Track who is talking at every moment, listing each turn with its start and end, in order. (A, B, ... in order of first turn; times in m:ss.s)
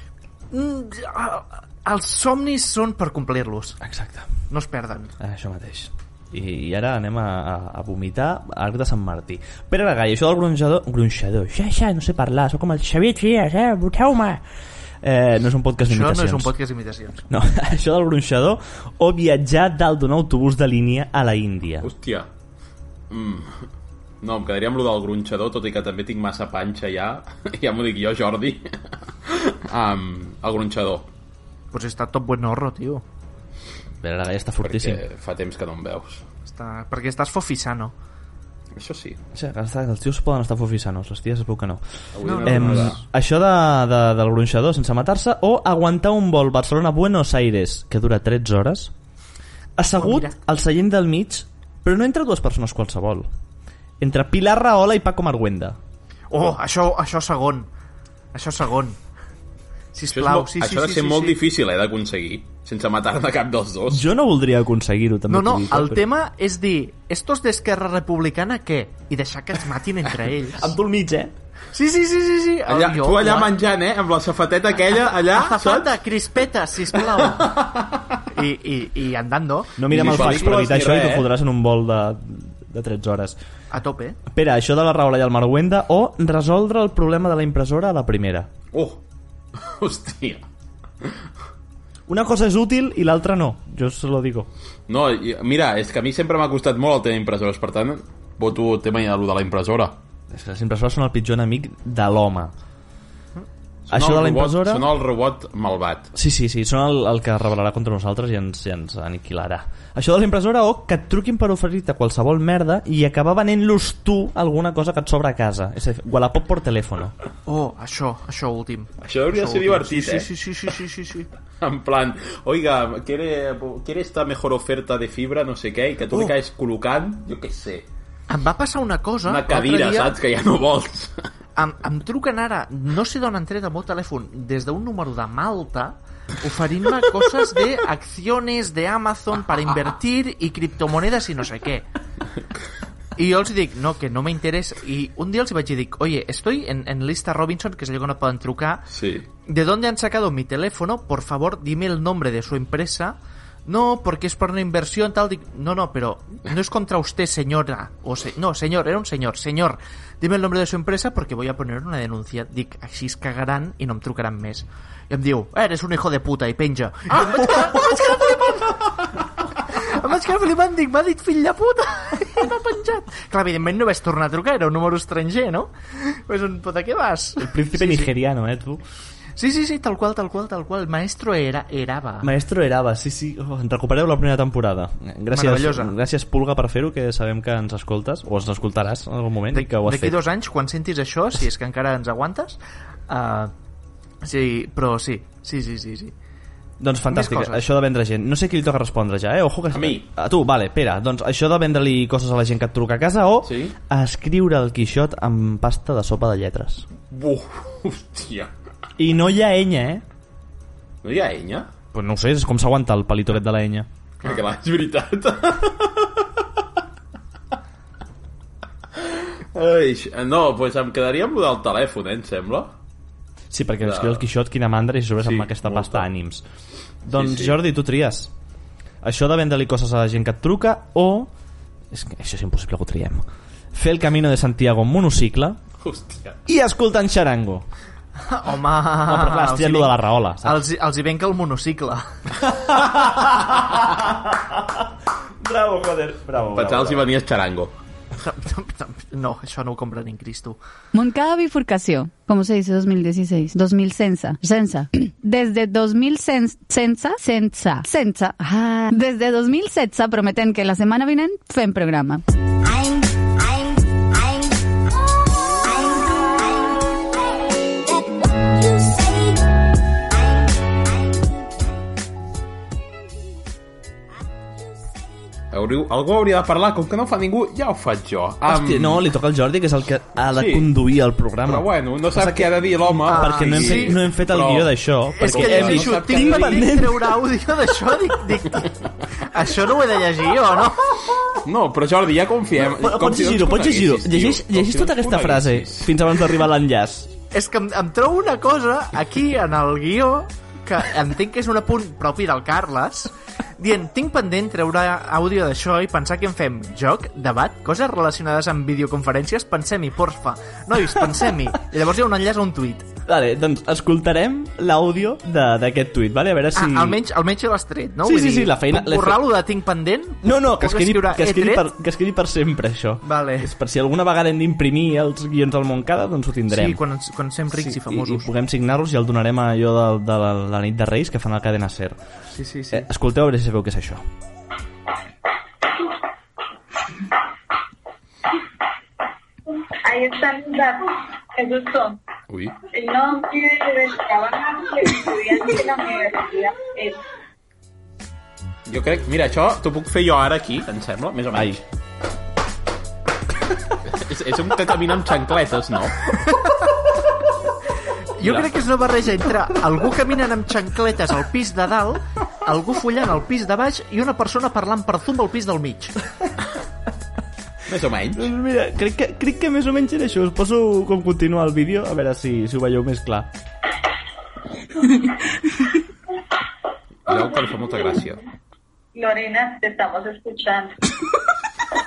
0:00.5-0:03.8 A
0:03.8-0:04.3 B
0:04.5-0:05.1 A
0:05.2-0:14.4 B
0:15.0-0:16.5 B
0:15.9-0:17.2 A
0:17.3-0:21.9 B
0:21.8-0:22.3 C
0:23.1-0:23.6 C
0:24.2-0:31.1 C
0:31.7-0:33.0 A
0:34.0-0:35.0 B
0:34.6-0:36.2 C
0:36.4-0:37.9 A
0:38.8-0:39.2 C
0:39.3-0:41.8 B
0:42.1-0:43.0 C
0:42.2-0:43.0 A
0:42.4-0:48.9 B
0:49.8-0:53.3 B
0:49.9-0:50.3 A
0:54.0-0:55.8 B
0:56.3-0:57.7 A
0:58.3-0:59.0 A
0:59.9-1:01.4 A
1:00.1-1:04.1 C
1:03.9-1:06.1 B
1:05.3-1:10.7 A
1:10.5-1:11.3 B
1:11.7-1:13.5 A
1:12.7-1:16.0 C
1:15.0-1:17.7 A
1:17.2-1:18.2 C
1:18.3-1:20.5 A
1:19.8-1:23.4 B
1:19.9-1:21.3 C
1:23.7-1:24.2 A
1:24.3-1:28.5 B
1:28.7-1:29.0 C
1:29.6-1:30.4 C
1:32.1-1:34.5 B
1:34.9-1:40.0 C
1:40.3-1:42.5 B
1:43.9-1:46.1 C
1:43.9-1:44.9 B
1:46.1-1:57.1 B
1:57.4-2:01.3 A
1:59.0-2:00.3 C
2:01.6-2:07.8 C
2:08.3-2:10.1 A
2:09.2-2:11.2 C
2:11.6-2:21.8 A
2:23.2-2:28.9 A
2:28.9-2:29.3 C
2:29.4-2:48.8 A
2:47.4-2:48.0 C
2:49.7-2:58.1 A
2:57.4-2:58.8 B
2:59.4-3:02.3 A
3:02.2-3:10.2 B
3:05.3-3:05.9 A
3:09.5-3:13.5 A
3:14.2-3:16.1 A
3:16.8-3:26.9 B
3:17.1-3:17.6 A
3:19.7-3:20.0 C
3:23.4-3:23.7 C
3:27.1-3:28.5 C
3:29.0-3:30.0 B
3:31.0-3:31.7 C
3:31.9-3:33.9 B
3:34.2-3:36.2 C
3:39.0-3:42.7 C
3:43.5-3:46.4 B
3:43.8-3:44.2 C
3:45.2-3:46.1 C
3:47.0-3:48.3 B
3:47.1-3:47.6 C
3:49.0-3:51.3 B
3:51.9-3:55.6 B
3:55.8-3:56.4 C
3:56.5-3:57.6 B
3:58.2-4:02.0 A
3:59.0-4:00.6 B
4:02.5-4:04.9 B
4:05.4-4:07.0 B
4:06.5-4:07.7 C
4:08.2-4:10.6 A
4:10.9-4:22.2 D
4:35.5-4:39.0 C
4:38.4-4:47.2 B
4:40.3-4:40.7 C
4:41.4-4:46.7 C
4:43.1-4:44.0 A
4:45.1-4:51.1 A
4:51.4-4:56.0 C
4:52.6-4:57.1 B
4:57.3-5:12.9 A
5:13.0-5:17.0 B
5:16.5-5:21.7 A
5:18.0-5:19.4 B
5:20.2-5:26.8 B
5:23.0-5:23.5 A
5:26.5-5:28.3 A
5:27.5-5:32.0 B
5:32.3-5:32.9 A
5:32.7-5:34.0 B
5:39.8-5:42.0 E
5:42.3-5:42.6 C
5:42.7-5:47.0 E
5:48.7-5:51.6 C
5:51.3-5:51.6 B
5:53.8-5:56.1 C
5:56.3-5:56.6 A
5:58.2-6:06.0 A
6:07.6-6:08.3 C
6:08.1-6:13.3 B
6:17.0-6:18.2 C
6:18.9-6:20.8 E